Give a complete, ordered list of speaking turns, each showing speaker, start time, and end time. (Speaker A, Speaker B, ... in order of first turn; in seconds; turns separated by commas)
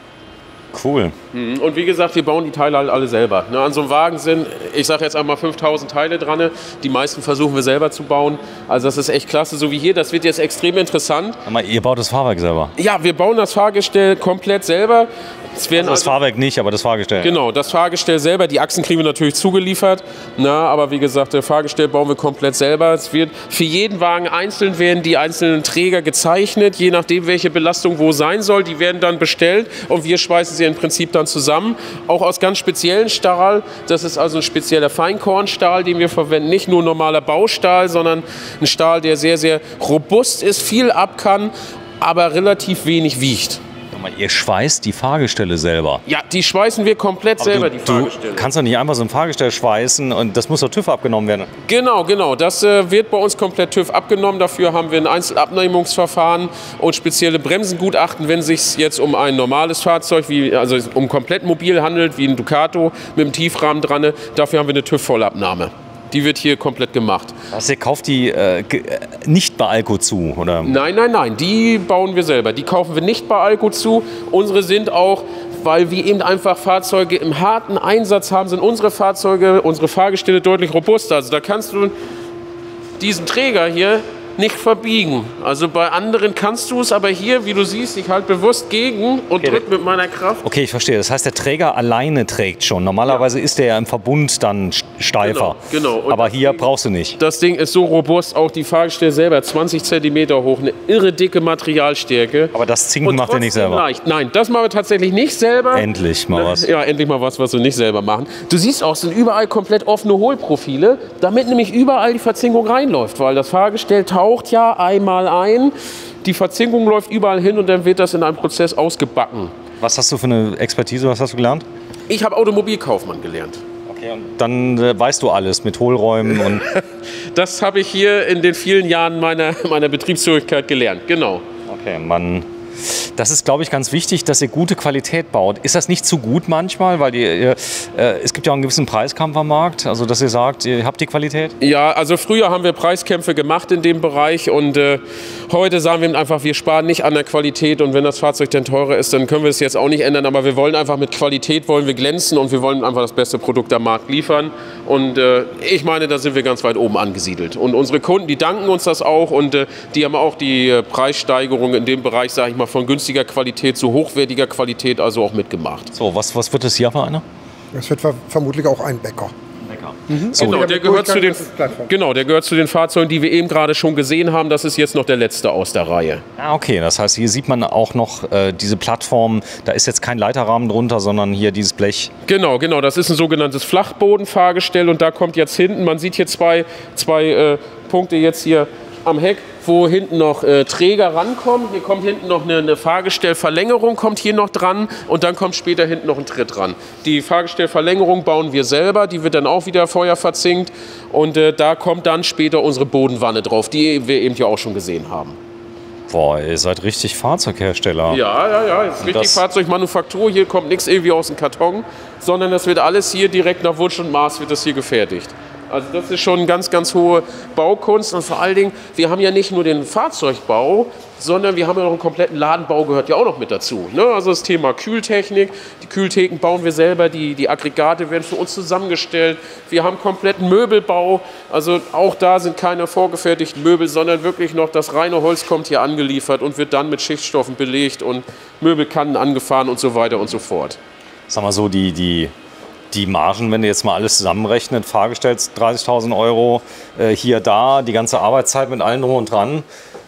Speaker A: 0.7-1.1, Speaker B: 1.3-11.4, Speaker A: 11.4-12.7, Speaker B: 12.8-16.1, Speaker A: 15.8-17.4, Speaker B: 17.2-43.6, Speaker A: 43.9-46.0, Speaker B: 46.1-48.5, Speaker A: 47.4-51.5, Speaker B: 51.6-67.3, Speaker A: 67.5-70.8, Speaker B: 70.6-81.9, Speaker B: 83.0-90.4, Speaker A: 90.4-97.2, Speaker B: 95.2-102.5, Speaker A: 102.5-103.8, Speaker B: 103.0-119.5, Speaker A: 105.7-106.7, Speaker A: 119.8-121.6, Speaker B: 122.1-123.6, Speaker A: 123.9-126.7, Speaker B: 126.3-131.4, Speaker A: 131.7-141.6, Speaker B: 141.6-165.9, Speaker A: 165.9-167.2, Speaker C: 167.7-169.3, Speaker A: 169.6-170.7, Speaker C: 170.1-171.9, Speaker B: 170.3-176.2, Speaker A: 176.4-182.1, Speaker B: 182.3-205.4, Speaker A: 206.1-208.2, Speaker B: 208.1-240.8, Speaker A: 209.0-209.4, Speaker A: 241.3-242.3, Speaker A: 242.9-249.7